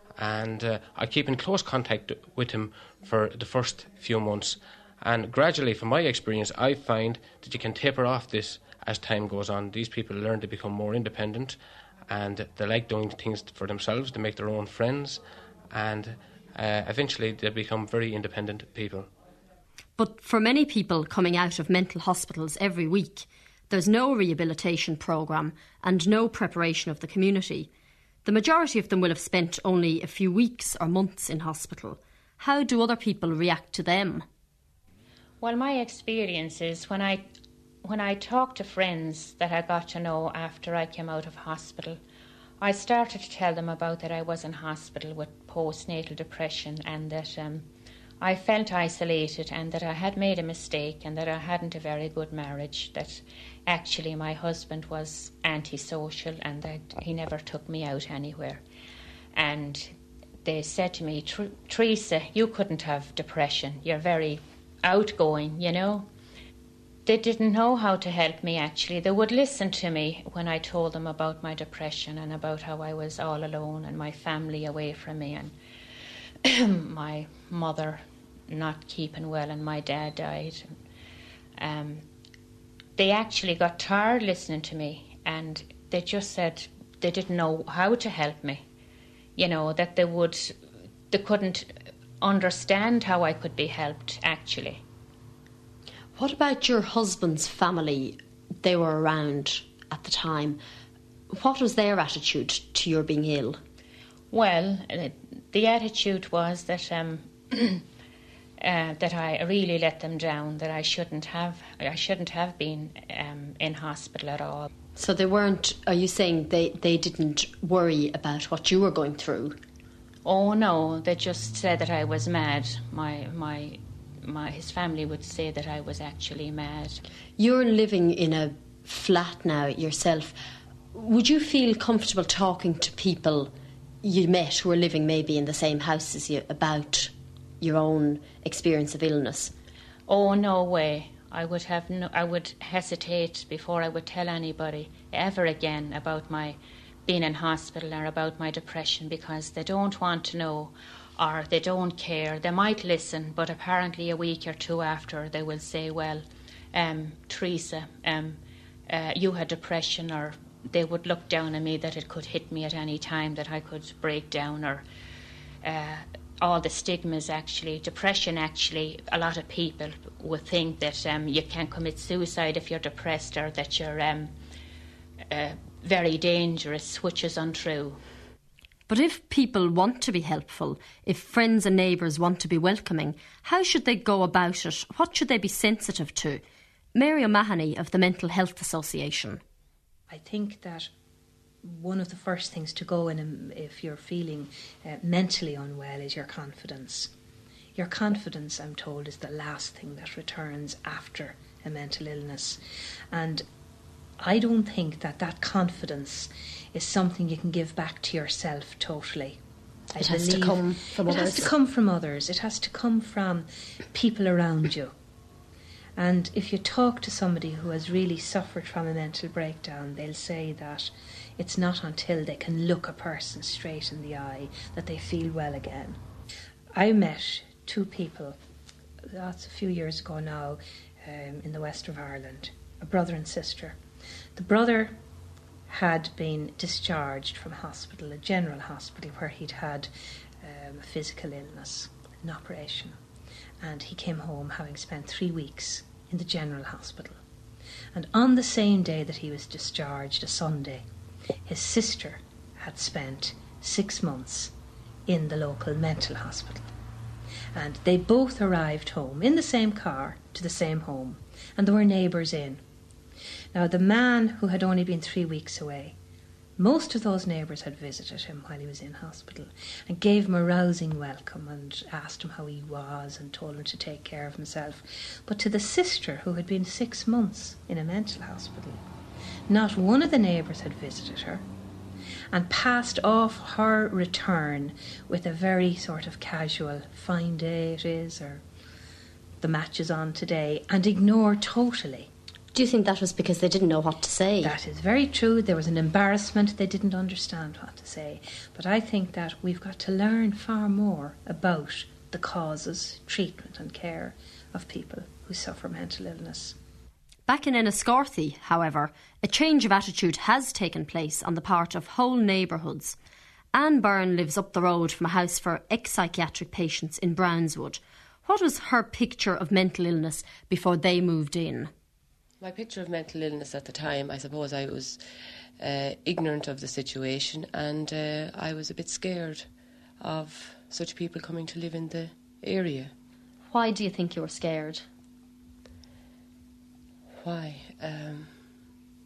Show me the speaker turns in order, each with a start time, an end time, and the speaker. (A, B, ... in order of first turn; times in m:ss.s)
0:00.2-0:19.1 A
0:20.0-0:27.7 B
0:28.2-0:34.2 B
0:35.4-0:37.2 C
0:37.8-0:42.0 C
0:42.6-0:47.7 C
0:48.2-0:58.6 C
0:59.3-0:59.9 C
1:00.4-1:06.1 C
1:07.0-1:15.5 C
1:16.4-1:20.7 C
1:21.6-1:22.0 C
1:23.0-1:28.6 C
1:29.4-1:30.6 C
1:31.1-1:34.8 C
1:36.2-1:40.6 B
1:41.3-1:43.6 B
1:44.3-1:47.8 C
1:48.6-1:54.7 C
1:55.0-1:59.6 B
2:00.2-2:07.0 C
2:07.4-2:10.4 B
2:10.9-2:13.5 B
2:14.0-2:19.5 B
2:20.1-2:44.8 C
2:45.6-2:54.3 C
2:55.3-2:58.0 C
2:58.9-3:06.4 B
3:06.9-3:09.4 B
3:10.1-3:10.9 D
3:11.6-3:17.1 D
3:17.7-3:22.6 D
3:23.1-3:23.4 D
3:24.2-3:29.4 D
3:29.9-3:34.9 D
3:30.0-3:31.5 B
3:36.0-3:46.0 D
3:46.7-3:48.4 D
3:49.1-3:53.8 D
3:54.4-3:55.0 D
3:55.7-4:03.0 D
4:03.6-4:07.2 D
4:07.9-4:10.8 D
4:11.4-4:14.5 D
4:15.1-4:16.7 D
4:17.5-4:22.6 D
4:23.5-4:26.0 D
4:26.6-4:38.8 D
4:39.5-4:41.4 D
4:42.3-4:48.4 D
4:49.4-4:52.1 D
4:52.5-4:54.5 B
4:54.4-5:06.6 D
5:07.3-5:13.0 B
5:13.5-5:21.7 B
5:22.4-5:25.0 E
5:25.6-5:32.9 E
5:33.5-5:34.8 B
5:37.2-5:38.4 E